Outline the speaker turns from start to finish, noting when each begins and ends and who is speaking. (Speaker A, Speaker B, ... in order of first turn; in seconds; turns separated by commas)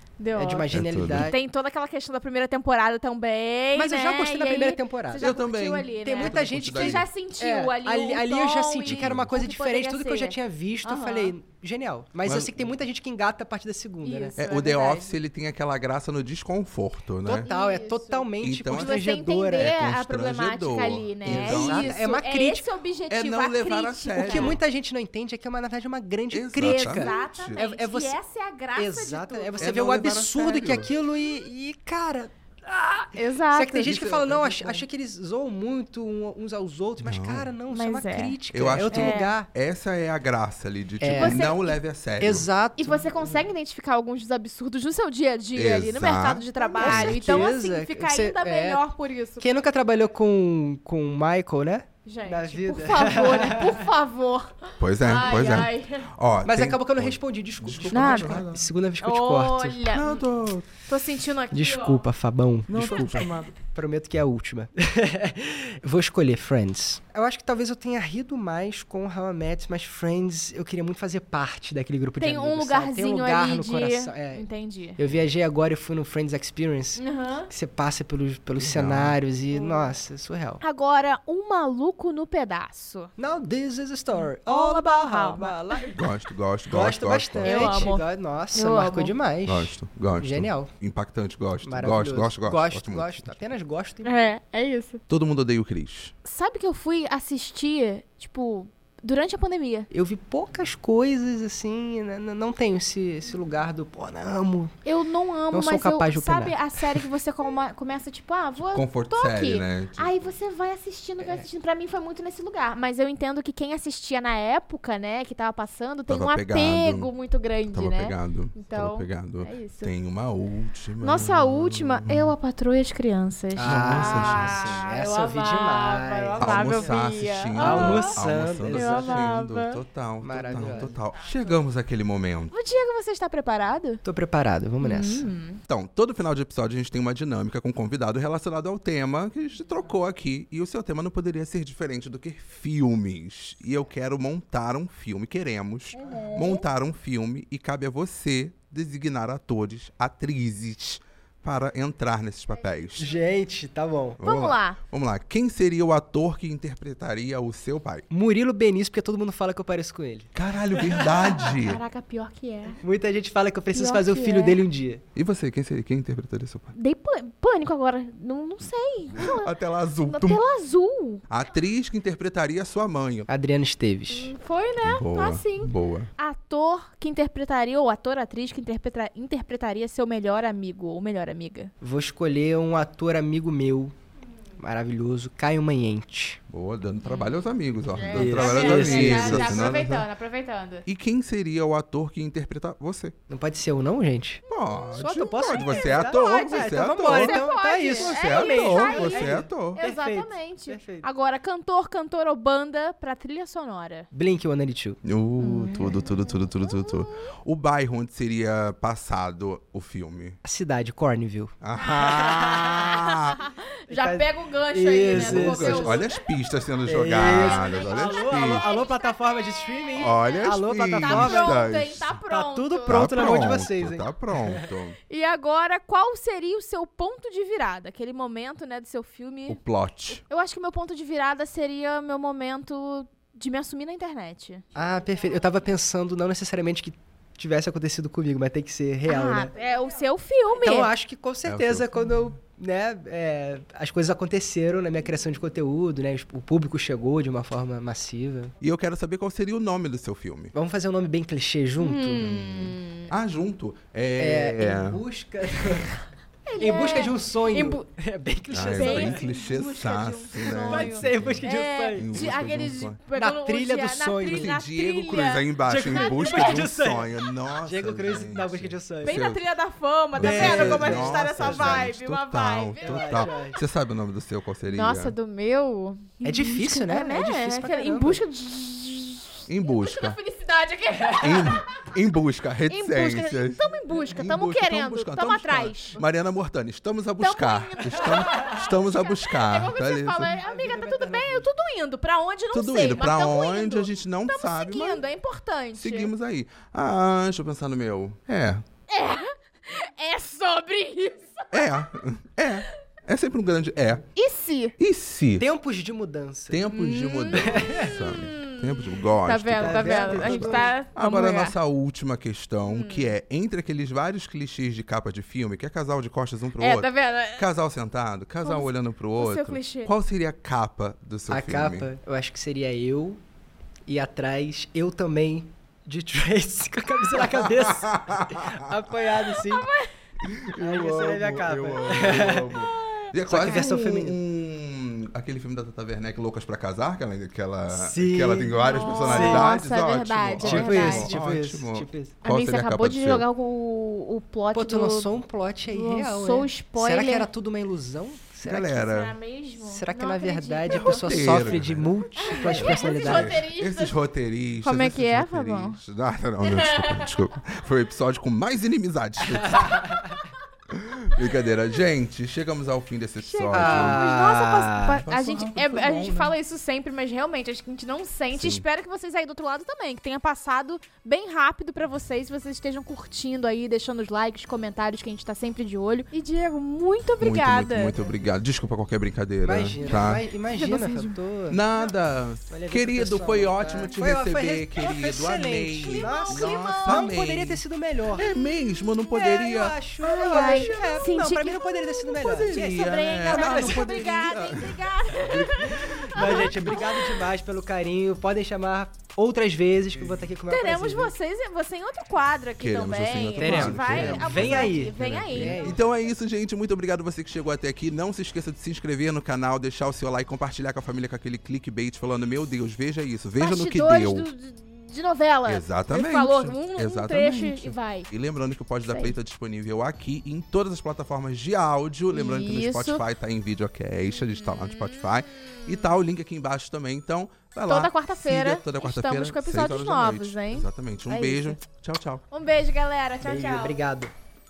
Speaker A: 0.2-11.3, Speaker B: 0.3-1.4, Speaker C: 0.7-1.3, Speaker B: 3.7-5.3, Speaker C: 5.2-7.0, Speaker B: 6.0-14.3, Speaker C: 8.8-9.4, Speaker C: 12.2-12.7, Speaker A: 14.0-15.2, Speaker C: 14.4-17.5, Speaker B: 17.3-19.7, Speaker A: 17.3-24.6, Speaker C: 18.4-22.0, Speaker B: 21.2-22.7, Speaker C: 23.1-24.6, Speaker B: 24.2-28.2, Speaker C: 26.3-27.6, Speaker A: 26.6-29.7, Speaker B: 28.8-39.5, Speaker C: 29.6-30.9, Speaker A: 33.1-33.9, Speaker C: 33.8-34.8, Speaker C: 37.0-37.5, Speaker A: 37.7-39.3, Speaker C: 38.5-42.5, Speaker B: 41.0-41.5, Speaker A: 41.1-41.8, Speaker B: 42.2-43.5, Speaker A: 42.8-49.5, Speaker C: 45.5-47.5, Speaker B: 46.6-48.8, Speaker B: 49.4-53.9, Speaker A: 52.0-56.1, Speaker C: 54.8-58.6, Speaker B: 56.4-59.8, Speaker A: 57.9-58.4, Speaker A: 59.0-60.2, Speaker C: 59.9-60.7, Speaker A: 60.9-62.0, Speaker B: 61.5-74.4, Speaker C: 62.7-63.5, Speaker A: 72.2-75.0, Speaker B: 75.0-80.6, Speaker A: 77.0-77.5, Speaker C: 78.6-79.2, Speaker A: 79.5-79.9, Speaker A: 80.6-83.1, Speaker B: 83.2-86.0, Speaker A: 84.1-85.9, Speaker C: 85.9-87.9, Speaker B: 86.7-90.7, Speaker A: 87.4-89.1, Speaker C: 89.5-93.4, Speaker B: 91.6-94.1, Speaker A: 94.0-95.0, Speaker C: 95.1-96.1, Speaker A: 96.2-99.9, Speaker B: 99.9-104.8, Speaker A: 104.8-119.9, Speaker B: 105.5-107.0, Speaker C: 108.7-110.1, Speaker B: 111.2-111.4, Speaker C: 116.1-117.1, Speaker C: 117.7-122.3, Speaker A: 121.0-128.2, Speaker B: 123.5-127.0, Speaker C: 123.6-124.8, Speaker C: 126.4-132.5, Speaker B: 127.5-129.2, Speaker A: 128.7-129.8, Speaker B: 130.2-130.9, Speaker A: 130.5-131.3, Speaker A: 132.5-134.0, Speaker B: 134.0-135.3, Speaker A: 134.8-135.6, Speaker C: 135.7-153.1, Speaker A: 145.9-146.6, Speaker B: 153.0-154.2, Speaker C: 154.2-158.1, Speaker A: 154.2-154.8, Speaker B: 158.1-161.5, Speaker C: 160.3-161.8, Speaker A: 161.3-162.8, Speaker B: 162.8-165.0, Speaker A: 163.7-164.6, Speaker C: 165.1-166.7, Speaker A: 166.7-171.2, Speaker C: 169.1-170.4, Speaker C: 171.3-173.3, Speaker B: 173.3-174.3, Speaker A: 174.1-181.7, Speaker C: 174.8-176.1, Speaker B: 181.8-183.9, Speaker B: 184.6-186.4, Speaker C: 186.5-190.1, Speaker A: 187.0-190.8, Speaker B: 188.1-189.8, Speaker C: 190.8-193.1, Speaker B: 193.3-194.4, Speaker C: 194.5-199.8, Speaker A: 194.5-204.1, Speaker B: 195.0-201.1, Speaker B: 204.1-205.0, Speaker C: 205.0-210.4, Speaker A: 205.4-207.3, Speaker B: 210.4-211.5, Speaker C: 211.6-213.4, Speaker A: 211.8-216.2, Speaker B: 212.3-212.8, Speaker B: 213.9-216.1, Speaker C: 215.1-218.7, Speaker B: 216.8-221.7, Speaker A: 217.2-220.5, Speaker C: 219.9-222.2, Speaker A: 221.0-223.4, Speaker B: 222.3-224.7, Speaker C: 222.9-224.9, Speaker A: 225.1-229.6, Speaker C: 229.5-230.2, Speaker A: 230.3-234.6, Speaker B: 234.7-239.5, Speaker A: 239.1-240.9, Speaker B: 240.6-248.5, Speaker C: 241.4-242.3, Speaker C: 248.6-250.5, Speaker B: 250.5-252.4, Speaker A: 251.8-253.1, Speaker C: 252.2-255.0, Speaker B: 254.2-256.1, Speaker A: 256.4-257.8, Speaker B: 256.6-259.2, Speaker C: 258.5-263.0, Speaker A: 258.7-266.6, Speaker B: 260.4-262.1, Speaker B: 263.1-264.5, Speaker C: 264.3-269.4, Speaker B: 265.6-269.2, Speaker A: 269.0-273.6, Speaker C: 270.1-275.1, Speaker B: 270.1-271.9, Speaker B: 272.8-273.6, Speaker A: 274.7-281.9, Speaker B: 276.2-278.2, Speaker C: 279.5-280.2, Speaker C: 281.2-290.4, Speaker A: 282.7-286.1, Speaker A: 287.2-296.1, Speaker B: 290.3-291.5, Speaker C: 292.5-295.0, Speaker C: 295.8-298.6, Speaker A: 298.9-301.7, Speaker C: 301.5-304.1, Speaker A: 304.1-304.7, Speaker C: 304.8-305.4, Speaker B: 305.4-306.6, Speaker C: 306.5-321.9, Speaker A: 306.7-311.5, Speaker B: 307.3-307.9, Speaker B: 309.6-310.8, Speaker A: 312.6-313.1, Speaker A: 316.6-317.5, Speaker A: 318.4-319.9, Speaker B: 321.3-323.2, Speaker B: 323.9-329.7, Speaker C: 327.2-328.7, Speaker A: 329.4-329.9, Speaker C: 330.2-343.2, Speaker B: 330.5-332.5, Speaker A: 332.6-333.8, Speaker B: 333.2-334.2, Speaker B: 337.7-339.6, Speaker A: 338.6-341.1, Speaker B: 340.4-342.1, Speaker A: 342.2-345.1, Speaker B: 344.5-348.7, Speaker A: 345.7-347.3, Speaker C: 348.4-349.1, Speaker A: 348.7-351.6, Speaker B: 349.6-353.4, Speaker C: 350.7-359.9, Speaker A: 352.1-353.9, Speaker A: 354.6-355.8, Speaker A: 356.4-357.1, Speaker A: 359.7-360.2, Speaker C: 360.7-364.0, Speaker A: 363.2-377.9, Speaker B: 363.5-365.0, Speaker C: 365.0-366.3, Speaker C: 368.3-368.6, Speaker C: 377.2-380.2, Speaker B: 379.4-381.6, Speaker A: 379.8-381.1, Speaker C: 381.5-387.6, Speaker B: 382.5-388.3, Speaker A: 385.8-387.2, Speaker C: 388.1-389.8, Speaker B: 389.1-393.9, Speaker A: 390.0-397.2, Speaker C: 392.3-396.8, Speaker B: 395.7-401.1, Speaker A: 400.5-405.7, Speaker C: 402.6-414.3, Speaker B: 403.4-405.8, Speaker A: 413.4-418.1, Speaker C: 415.4-432.2, Speaker A: 418.9-419.1, Speaker A: 422.1-423.0, Speaker A: 424.3-425.9, Speaker A: 427.7-431.6, Speaker A: 432.3-433.8, Speaker B: 433.2-434.1